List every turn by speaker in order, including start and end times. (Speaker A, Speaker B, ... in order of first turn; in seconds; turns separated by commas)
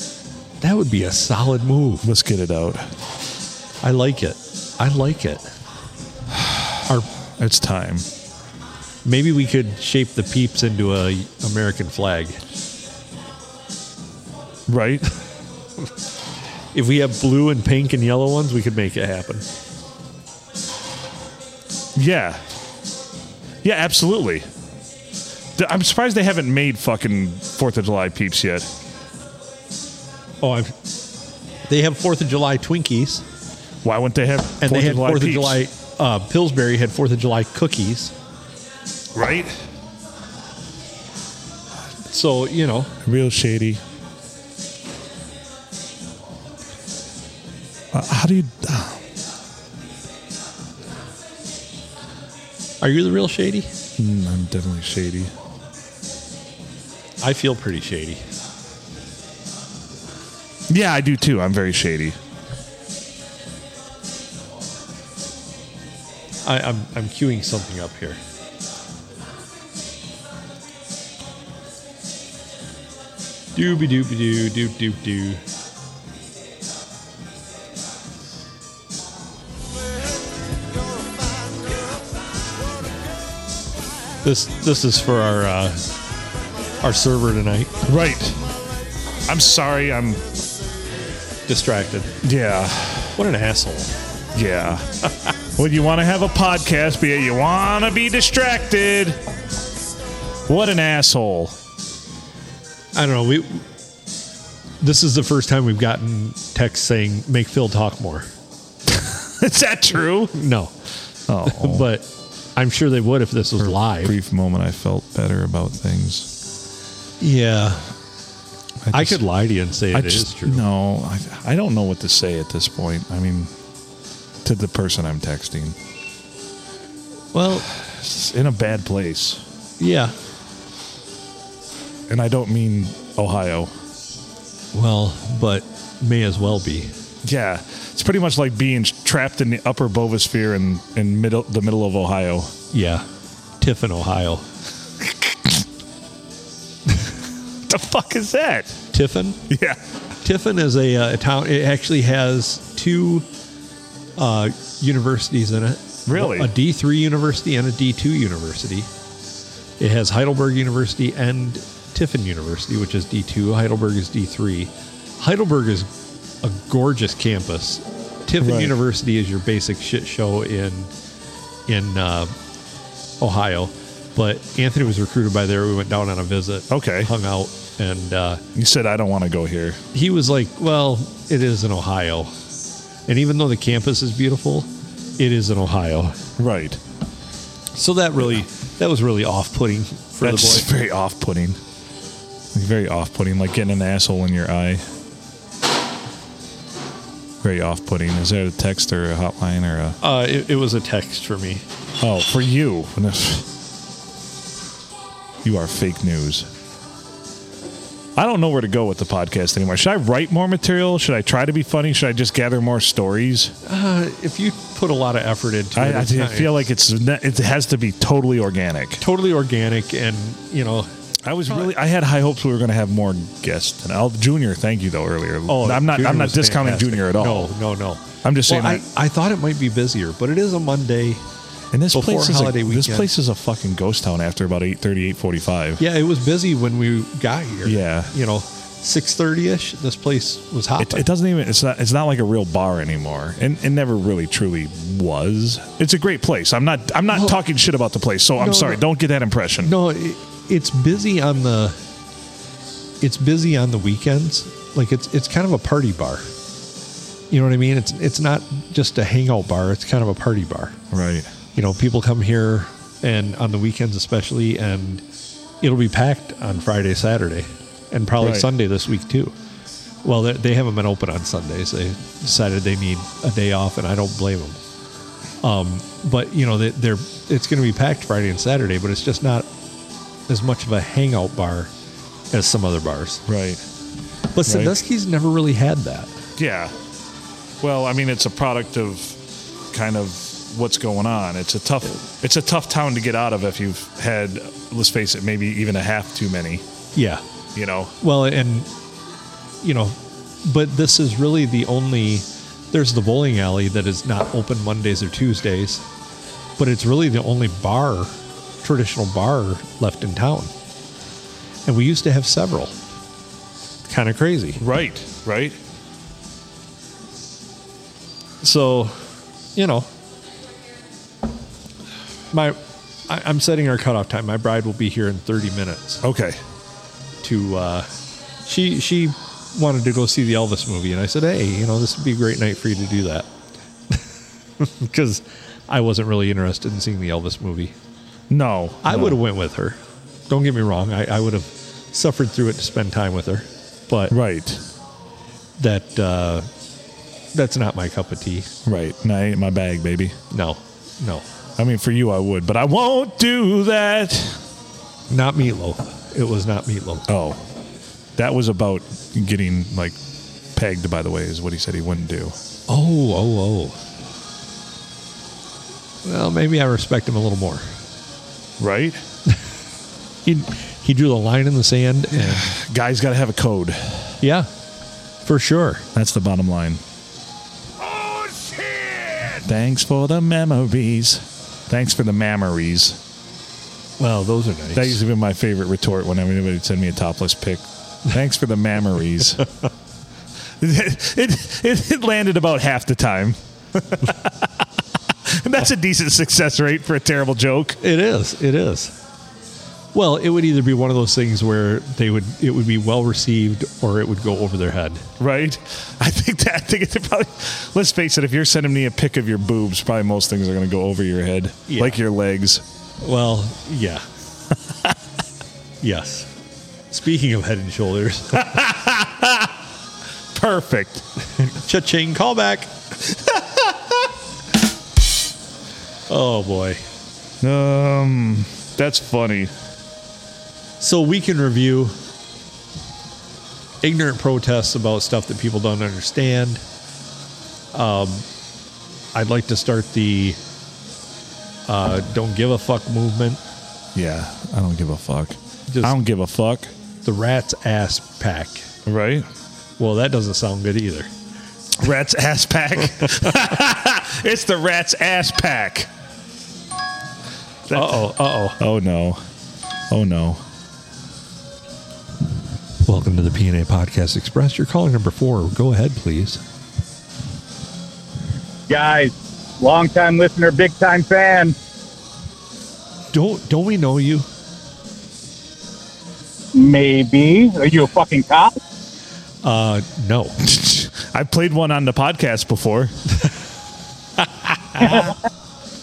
Speaker A: 0.6-2.1, Speaker B: 2.0-2.9, Speaker A: 3.8-5.4, Speaker B: 7.4-8.1, Speaker A: 9.0-12.4, Speaker B: 14.7-15.1, Speaker A: 16.7-19.4, Speaker B: 21.9-22.4, Speaker B: 23.6-24.4, Speaker B: 25.6-28.7, Speaker A: 30.4-30.8, Speaker A: 31.7-33.2, Speaker B: 33.8-35.6, Speaker A: 34.6-38.1, Speaker B: 39.1-39.5, Speaker A: 42.1-42.9, Speaker B: 43.0-43.8, Speaker B: 47.9-49.0, Speaker A: 52.8-53.7, Speaker B: 54.0-55.3, Speaker A: 57.2-58.2, Speaker B: 60.7-62.2, Speaker A: 66.4-68.2, Speaker A: 73.5-75.4, Speaker A: 84.2-85.8, Speaker A: 86.8-87.7, Speaker B: 87.8-88.4, Speaker B: 89.3-90.2, Speaker A: 91.5-92.1, Speaker B: 92.2-93.2, Speaker A: 93.2-93.9, Speaker B: 94.3-94.9, Speaker B: 95.5-99.2, Speaker B: 100.5-101.6, Speaker A: 102.9-103.6, Speaker A: 104.8-108.3, Speaker B: 108.9-110.3, Speaker A: 110.3-110.7, Speaker B: 111.3-111.9, Speaker A: 111.4-114.1, Speaker B: 113.6-116.3, Speaker A: 117.2-117.9, Speaker B: 118.8-119.2, Speaker A: 118.9-120.6, Speaker B: 119.9-123.5, Speaker B: 124.4-125.8, Speaker A: 127.3-127.7, Speaker B: 127.7-129.4, Speaker A: 129.8-130.1, Speaker B: 132.1-133.7, Speaker A: 134.7-136.9, Speaker B: 137.2-142.5, Speaker A: 142.7-143.0, Speaker A: 143.6-144.4, Speaker B: 145.1-145.6, Speaker B: 147.7-148.8, Speaker A: 148.9-149.4, Speaker B: 149.5-149.8, Speaker A: 150.2-153.2, Speaker A: 154.2-158.9, Speaker B: 156.1-156.5, Speaker A: 159.8-165.9, Speaker A: 166.4-170.9, Speaker B: 168.4-168.8, Speaker A: 171.7-172.3, Speaker A: 173.2-178.4, Speaker B: 176.7-177.1, Speaker B: 178.5-179.8, Speaker A: 179.9-182.3, Speaker A: 183.1-186.2, Speaker B: 186.4-186.8, Speaker A: 187.8-190.7, Speaker B: 190.2-191.6, Speaker B: 192.5-194.8, Speaker B: 197.4-200.0, Speaker A: 200.0-201.6, Speaker B: 202.0-203.5, Speaker B: 205.4-206.5, Speaker B: 208.2-213.5, Speaker A: 213.6-216.7, Speaker B: 215.7-219.0, Speaker A: 219.0-220.9, Speaker B: 221.2-227.5, Speaker A: 225.5-231.2, Speaker B: 228.2-228.8, Speaker B: 231.7-235.8, Speaker A: 231.9-233.1, Speaker A: 235.8-241.1, Speaker B: 237.6-238.1, Speaker B: 240.8-249.7, Speaker A: 247.1-247.4, Speaker A: 248.4-248.8, Speaker A: 249.6-251.8, Speaker A: 253.0-256.2, Speaker A: 257.3-260.8, Speaker B: 260.9-261.3, Speaker A: 261.5-265.0, Speaker A: 265.6-269.3, Speaker B: 268.2-268.5, Speaker A: 270.0-274.6, Speaker A: 275.4-279.5, Speaker A: 280.3-281.7, Speaker A: 282.3-283.2, Speaker B: 283.3-283.6, Speaker A: 284.3-286.1, Speaker B: 284.4-284.8, Speaker B: 286.4-286.7, Speaker B: 287.6-289.2, Speaker B: 289.7-296.6, Speaker A: 296.9-297.2, Speaker B: 297.5-297.9, Speaker A: 298.0-298.7, Speaker A: 299.6-305.8, Speaker A: 306.6-308.1, Speaker A: 308.6-310.5, Speaker A: 311.6-312.7, Speaker A: 313.9-314.6, Speaker B: 314.6-315.6, Speaker A: 318.4-319.0, Speaker A: 319.6-319.9, Speaker A: 322.3-326.0, Speaker B: 326.0-326.4, Speaker A: 327.2-327.9, Speaker A: 328.4-333.3, Speaker A: 334.6-337.7, Speaker B: 338.3-339.2, Speaker A: 338.8-339.8, Speaker A: 340.3-344.1, Speaker B: 344.1-344.6, Speaker A: 345.6-346.5, Speaker A: 347.3-348.5, Speaker B: 348.6-350.1, Speaker A: 350.3-351.2, Speaker B: 351.6-354.4, Speaker A: 355.1-357.1, Speaker B: 357.1-357.4, Speaker B: 358.1-360.0, Speaker B: 360.5-362.4, Speaker A: 362.7-363.8, Speaker A: 366.0-367.6, Speaker B: 368.6-369.0, Speaker A: 370.2-372.5, Speaker B: 372.1-374.2, Speaker A: 374.2-374.5, Speaker A: 375.2-375.9, Speaker B: 375.9-376.8, Speaker B: 379.2-383.0, Speaker A: 384.0-385.0, Speaker B: 384.7-389.4, Speaker B: 390.6-394.6, Speaker B: 395.2-397.8, Speaker A: 397.8-398.9, Speaker A: 399.9-405.1, Speaker B: 405.2-412.6, Speaker A: 411.7-412.0, Speaker A: 413.0-414.1, Speaker A: 415.8-416.3, Speaker A: 416.9-418.5, Speaker B: 418.3-419.5, Speaker B: 420.3-421.0, Speaker A: 421.4-422.7, Speaker B: 423.3-423.6, Speaker A: 426.1-426.8, Speaker B: 427.4-429.5, Speaker A: 430.8-431.9, Speaker A: 433.8-436.6, Speaker A: 437.7-438.2, Speaker A: 439.1-440.4, Speaker A: 441.7-443.4, Speaker B: 443.9-446.7, Speaker A: 445.7-446.0, Speaker A: 447.0-448.7, Speaker B: 448.9-449.3, Speaker A: 449.8-451.1, Speaker B: 451.8-455.9, Speaker B: 457.7-459.2, Speaker A: 457.7-458.6, Speaker B: 459.9-460.4, Speaker A: 462.8-466.4, Speaker C: 468.7-471.5, Speaker A: 473.1-474.2, Speaker C: 476.5-478.5, Speaker A: 479.4-480.4, Speaker B: 480.4-482.9, Speaker A: 484.2-485.1, Speaker C: 484.8-485.1